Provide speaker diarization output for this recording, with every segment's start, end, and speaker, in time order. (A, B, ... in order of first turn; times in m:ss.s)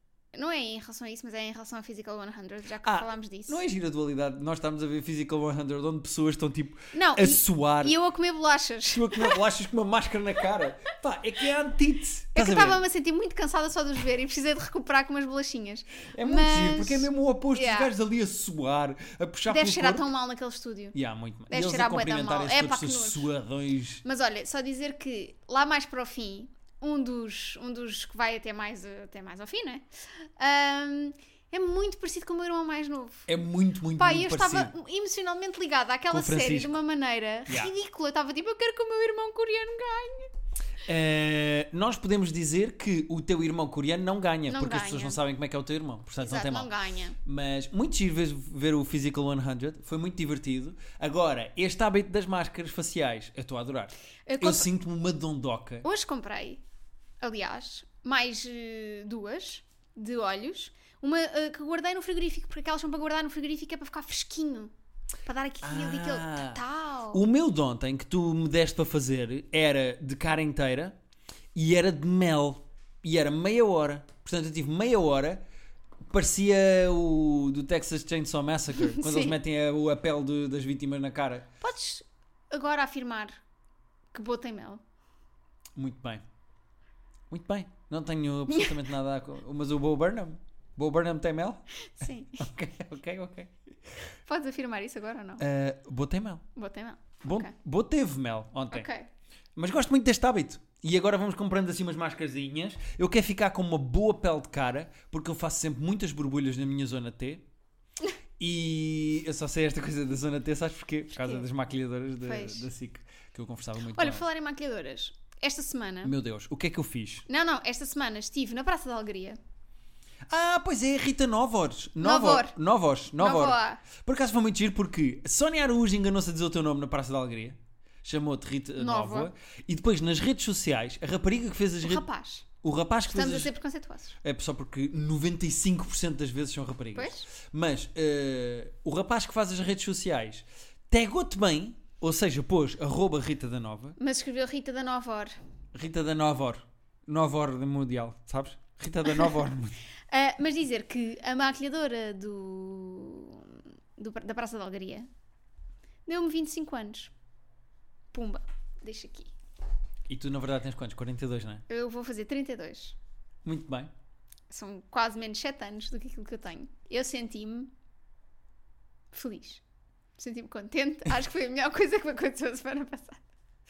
0:00.3-0:03.6 A
0:02.8-0:08.0 B
0:06.9-0:09.4 A
0:08.9-0:12.8 B
0:12.3-0:17.9 A
0:16.1-0:20.1 B
0:19.5-0:21.0 A
0:20.9-0:24.0 B
0:21.5-0:23.2 A
0:24.0-0:33.3 A
0:33.3-0:34.7 B
0:34.0-0:40.3 A
0:36.1-0:36.8 B
0:37.5-0:37.7 B
0:40.8-0:46.7 B
0:44.5-0:45.2 A
0:46.2-0:47.2 A
0:47.2-0:55.8 B
0:54.3-0:54.7 A
0:55.8-0:56.6 A
0:57.2-1:04.7 A
1:05.2-1:07.2 A
1:05.6-1:11.0 B
1:11.5-1:15.4 B
1:16.1-1:21.5 B
1:18.8-1:19.4 A
1:21.6-1:23.4 A
1:24.1-1:24.8 A
1:25.8-1:26.2 B
1:27.3-1:31.6 B
1:28.5-1:28.8 A
1:31.8-1:32.4 A
1:32.4-1:33.5 B
1:34.3-1:35.4 A
1:35.4-1:36.4 B
1:36.6-1:37.5 A
1:37.2-1:38.9 B
1:38.7-1:39.1 A
1:39.6-1:47.4 B
1:48.4-1:54.2 B
1:51.2-1:51.4 A
1:52.2-1:52.7 A
1:53.8-1:56.1 A
1:56.0-1:57.2 B
1:57.3-1:59.4 A
2:00.3-2:12.0 B
2:02.0-2:02.5 A
2:03.2-2:03.8 A
2:08.8-2:09.3 A
2:11.8-2:12.5 A
2:12.6-2:13.5 B
2:13.1-2:14.2 A
2:14.2-2:24.0 B
2:16.9-2:17.3 A
2:24.0-2:25.4 A
2:25.7-2:29.8 B
2:30.1-2:35.1 A
2:36.0-2:37.1 A
2:38.1-2:39.3 A
2:40.1-2:41.6 B
2:41.7-2:43.0 A
2:43.4-2:43.9 B
2:44.5-2:47.7 A
2:49.1-2:49.6 A
2:50.2-2:53.2 A